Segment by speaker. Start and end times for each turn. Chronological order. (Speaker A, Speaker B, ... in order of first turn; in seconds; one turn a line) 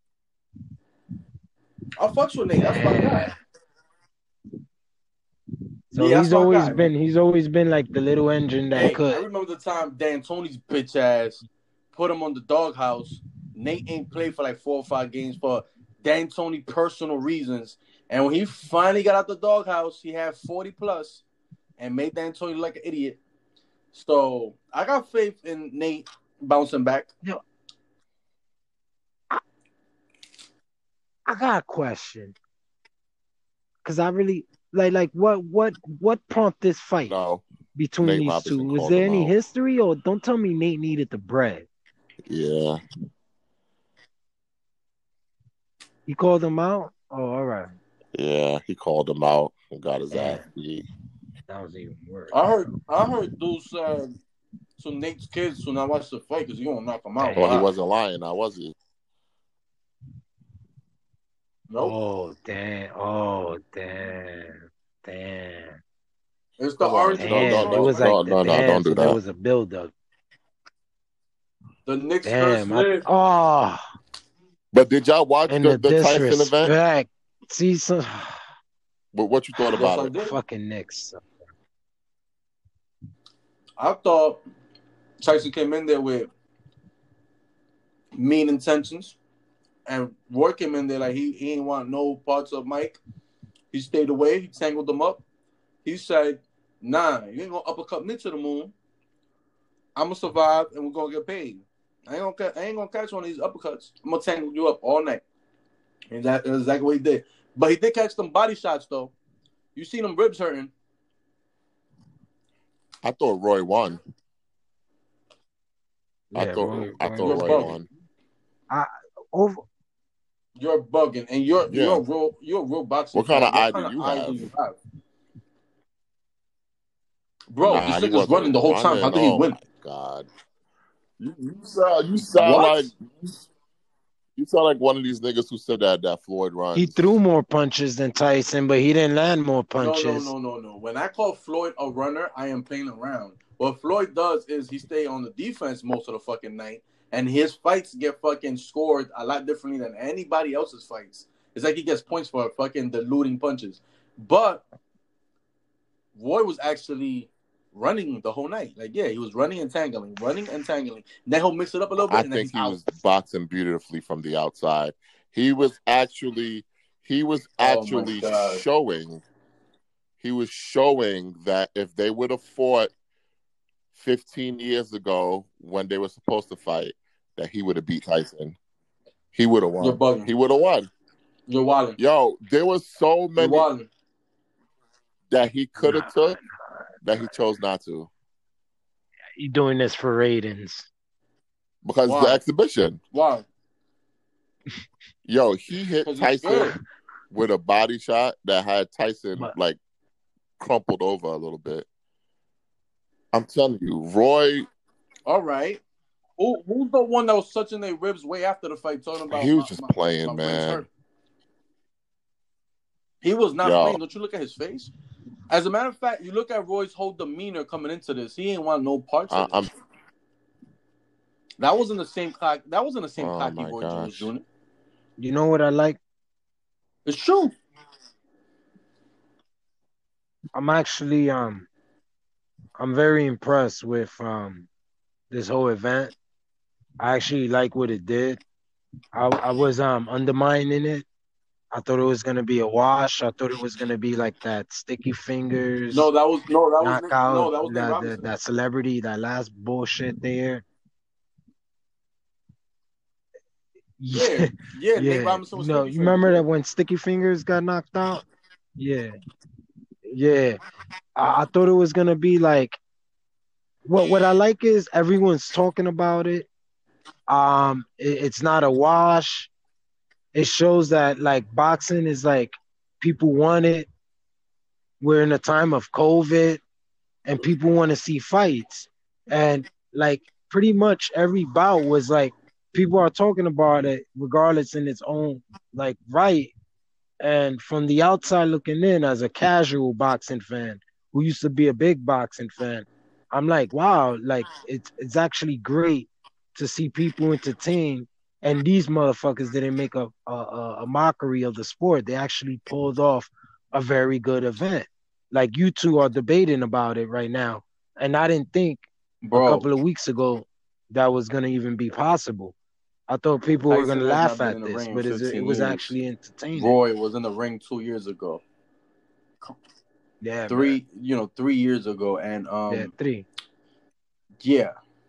Speaker A: 2.0-3.3
Speaker B: 2.6-3.4
Speaker B: 5.9-9.2
Speaker A: 5.9-6.9
Speaker A: 8.8-21.2
Speaker A: 21.8-23.2
Speaker A: 23.9-27.1
Speaker B: 31.3-32.4
Speaker B: 33.9-37.1
Speaker C: 37.1-37.4
Speaker B: 37.8-41.7
Speaker C: 38.0-39.4
Speaker C: 42.2-42.8
Speaker B: 46.1-47.7
Speaker C: 48.1-50.9
Speaker B: 50.1-50.4
Speaker B: 51.5-52.8
Speaker A: 52.3-54.2
Speaker A: 54.8-57.7
Speaker B: 57.2-57.6
Speaker C: 57.4-58.8
Speaker B: 61.8-65.8
Speaker A: 66.6-68.2
Speaker C: 66.8-69.2
Speaker B: 67.2-69.9
Speaker A: 71.9-73.1
Speaker B: 72.2-73.8
Speaker C: 74.7-76.7
Speaker B: 75.5-78.4
Speaker C: 79.1-80.2
Speaker A: 79.8-80.4
Speaker B: 80.2-81.2
Speaker A: 83.8-84.4
Speaker A: 85.2-86.3
Speaker A: 88.1-89.2
Speaker A: 89.9-93.0
Speaker A: 93.7-95.2
Speaker A: 95.8-98.7
Speaker A: 100.0-105.2
Speaker A: 106.1-109.1
Speaker A: 109.8-110.7
Speaker C: 113.0-114.0
Speaker B: 116.3-117.7
Speaker C: 116.3-117.9
Speaker A: 117.2-117.8
Speaker B: 118.7-119.6
Speaker A: 120.6-124.8
Speaker C: 121.7-122.0
Speaker C: 123.1-124.5
Speaker A: 127.5-129.6
Speaker C: 127.6-130.3
Speaker C: 131.2-133.4
Speaker A: 132.4-132.9
Speaker C: 134.4-137.1
Speaker B: 136.7-140.3
Speaker A: 139.8-154.7
Speaker A: 156.2-162.8
Speaker C: 162.0-169.2
Speaker A: 167.6-168.6
Speaker C: 170.2-172.9
Speaker C: 173.9-178.6
Speaker C: 179.3-180.9
Speaker A: 179.8-180.3
Speaker A: 181.5-182.0
Speaker C: 182.0-183.7
Speaker A: 183.4-183.9
Speaker C: 185.3-186.4
Speaker B: 185.8-186.3
Speaker C: 187.0-188.1
Speaker B: 189.4-190.9
Speaker C: 191.8-193.0
Speaker A: 192.1-192.4
Speaker A: 193.1-193.5
Speaker C: 195.2-196.8
Speaker A: 196.1-196.8
Speaker C: 197.3-199.8
Speaker C: 200.6-201.9
Speaker C: 203.3-204.7
Speaker A: 205.3-205.8
Speaker A: 206.4-210.9
Speaker C: 209.3-210.8
Speaker A: 213.2-214.9
Speaker C: 213.6-214.0
Speaker A: 215.5-219.6
Speaker C: 219.3-219.7
Speaker A: 221.6-224.4
Speaker C: 223.2-224.3
Speaker B: 225.2-226.0
Speaker A: 227.1-227.5
Speaker B: 230.5-231.7
Speaker B: 232.8-234.7
Speaker B: 235.3-236.1
Speaker B: 237.0-238.4
Speaker B: 239.1-241.1
Speaker B: 241.7-246.1
Speaker A: 245.9-248.3
Speaker B: 246.8-250.6
Speaker B: 254.0-258.2
Speaker A: 254.1-256.4
Speaker B: 258.8-259.1
Speaker B: 260.1-260.6
Speaker B: 261.2-262.8
Speaker B: 263.9-266.5
Speaker B: 267.3-269.5
Speaker B: 270.3-273.9
Speaker B: 275.0-276.6
Speaker B: 277.3-286.5
Speaker B: 287.2-312.6
Speaker A: 309.2-309.7
Speaker B: 313.1-316.8
Speaker A: 313.7-315.9
Speaker A: 316.5-318.4
Speaker B: 320.2-320.8
Speaker A: 320.5-322.9
Speaker B: 322.7-323.3
Speaker A: 324.4-324.7